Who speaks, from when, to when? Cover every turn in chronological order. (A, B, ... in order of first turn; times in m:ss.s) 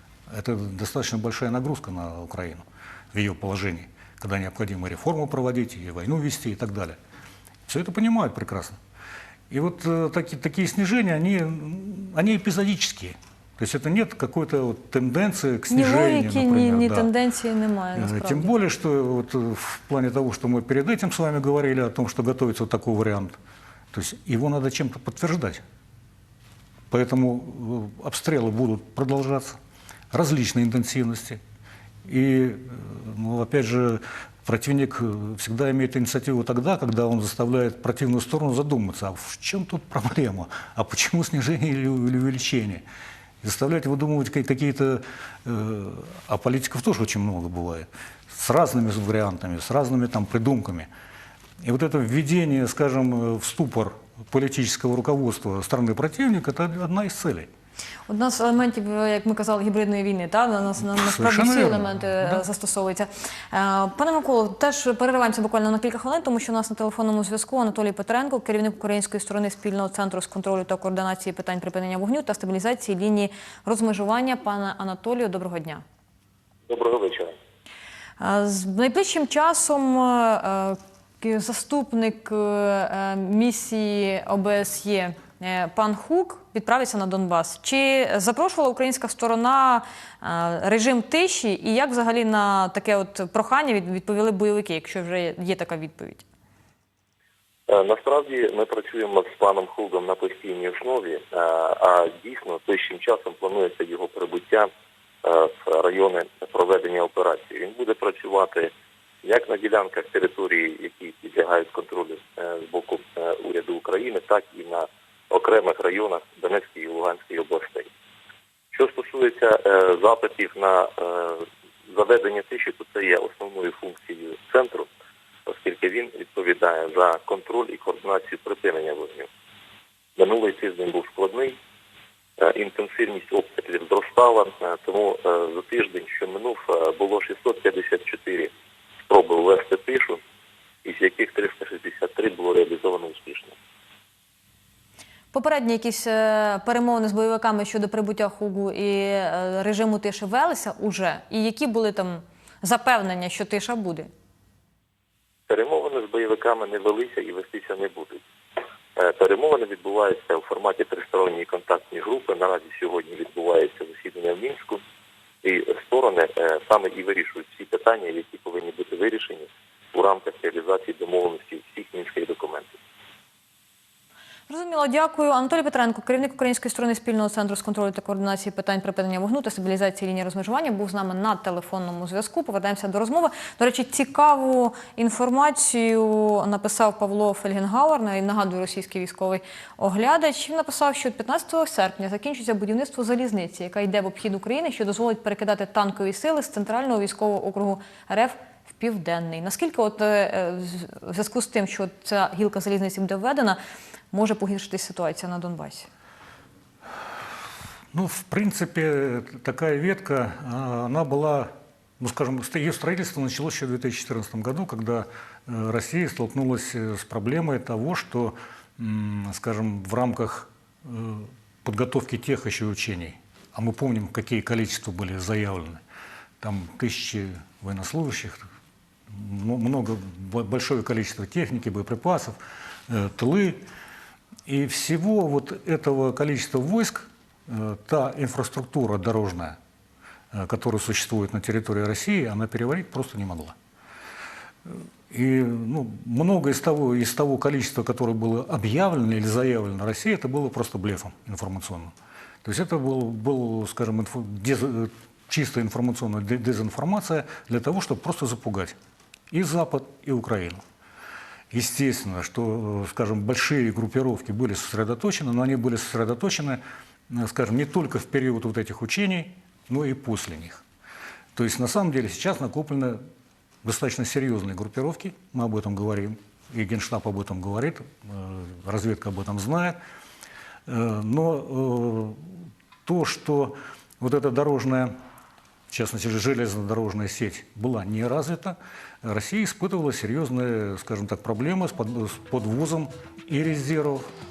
0:00.3-0:07.0 A
0:07.7-0:08.8 A
0:09.5-0:17.1 A
0:15.7-0:18.5 B
0:18.0-0:23.4 A
0:23.9-0:25.6 A
0:26.9-0:29.6 A
0:30.1-0:31.4 A
0:32.0-0:42.8 A
0:43.4-0:50.9 A
0:51.6-0:57.5 A
0:58.1-1:15.8 B
1:00.9-1:02.4 A
1:16.7-1:17.4 C
1:18.2-1:36.3 B
1:37.7-1:44.7 C
1:45.2-1:48.7 C
1:49.2-1:57.9 C
1:58.7-2:04.9 C
2:05.5-2:09.3 C
2:10.2-2:11.6 C
2:12.4-2:18.5 C
2:19.1-2:20.2 C
2:20.8-2:23.6 C
2:25.3-2:34.1 B
2:35.5-2:38.2 C
2:39.0-2:44.8 C
2:45.4-2:52.8 C
2:54.5-3:23.6 B
3:24.1-3:25.9 B
3:27.9-3:45.8 A
3:46.4-3:48.4 A
3:49.1-3:53.6 A
3:54.5-3:59.6 A
4:00.3-4:03.6 A
4:04.7-4:18.8 A
4:19.3-4:20.6 A
4:21.5-4:30.6 A
4:31.4-4:33.0 A
4:33.6-4:39.8 A
4:40.7-4:45.0 A
4:45.7-4:54.1 A